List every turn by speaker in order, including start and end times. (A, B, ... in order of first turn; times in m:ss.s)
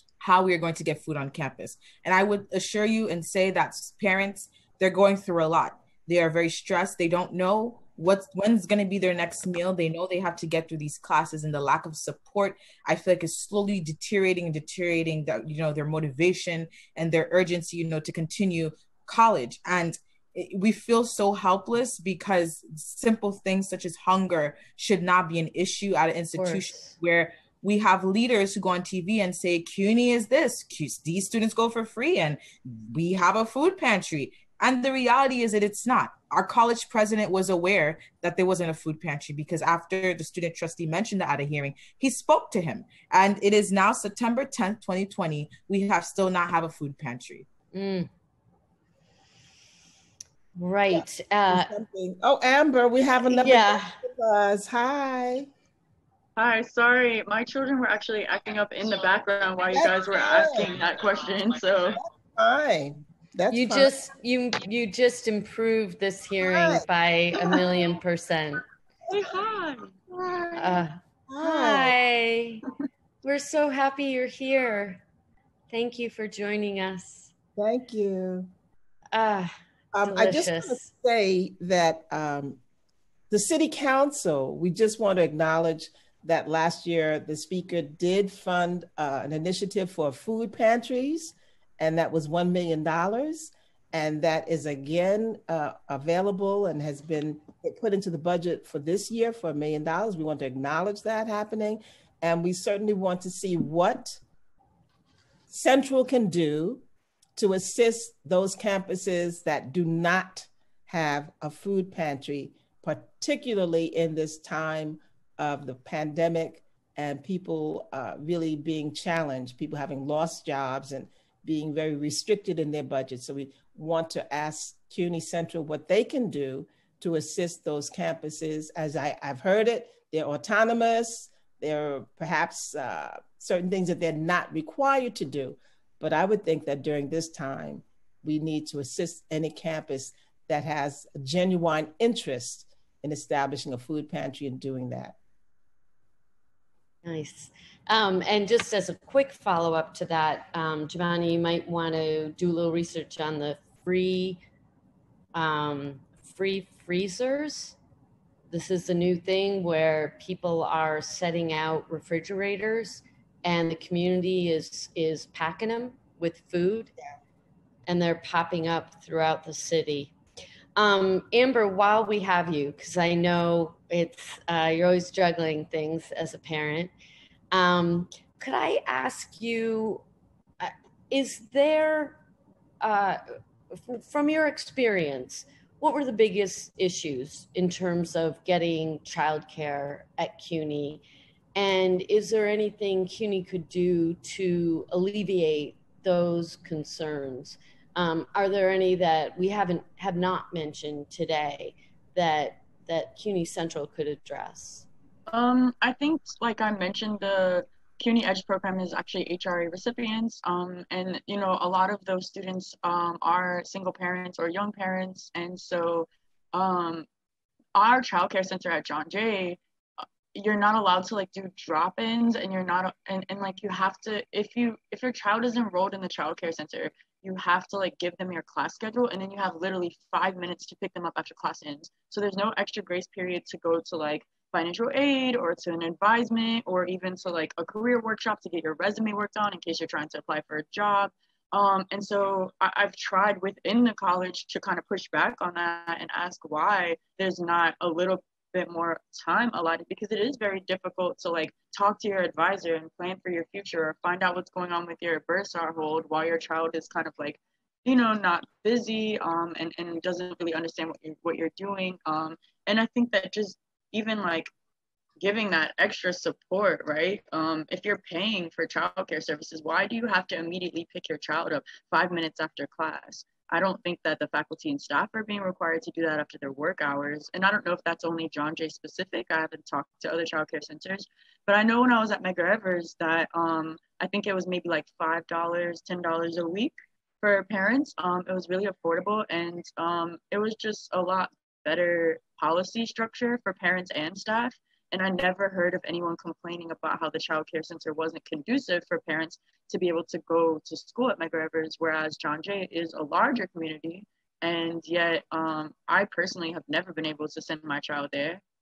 0:00.2-0:47.5 A
0:26.4-0:26.9 B
0:47.7-0:48.1 B
0:50.6-0:51.7 B
0:50.9-0:55.5 C
0:53.2-0:54.0 B
0:56.4-1:02.0 D
0:59.7-1:00.8 C
1:01.9-1:04.0 C
1:03.5-1:08.6 B
1:06.4-1:06.8 C
1:09.1-1:09.9 D
1:10.1-1:12.0 C
1:10.5-1:12.6 B
1:13.2-1:15.0 B
1:15.7-1:17.3 B
1:17.6-1:18.5 C
1:19.1-1:19.5 B
1:19.9-1:22.6 C
1:20.0-1:20.9 B
1:23.3-1:44.2 C
1:45.5-1:46.8 C
1:47.4-2:25.2 C
2:27.0-2:34.4 B
2:35.3-2:37.8 B
2:38.5-2:46.9 B
2:47.8-2:50.1 B
2:50.8-2:56.9 B
2:57.5-3:00.0 B
3:00.6-3:02.2 B
3:02.8-3:03.2 B
3:03.7-3:11.0 B
3:11.5-3:24.8 B
3:25.3-3:37.0 D
3:37.7-3:39.6 D
3:40.3-4:24.5 D
4:25.2-5:08.4 D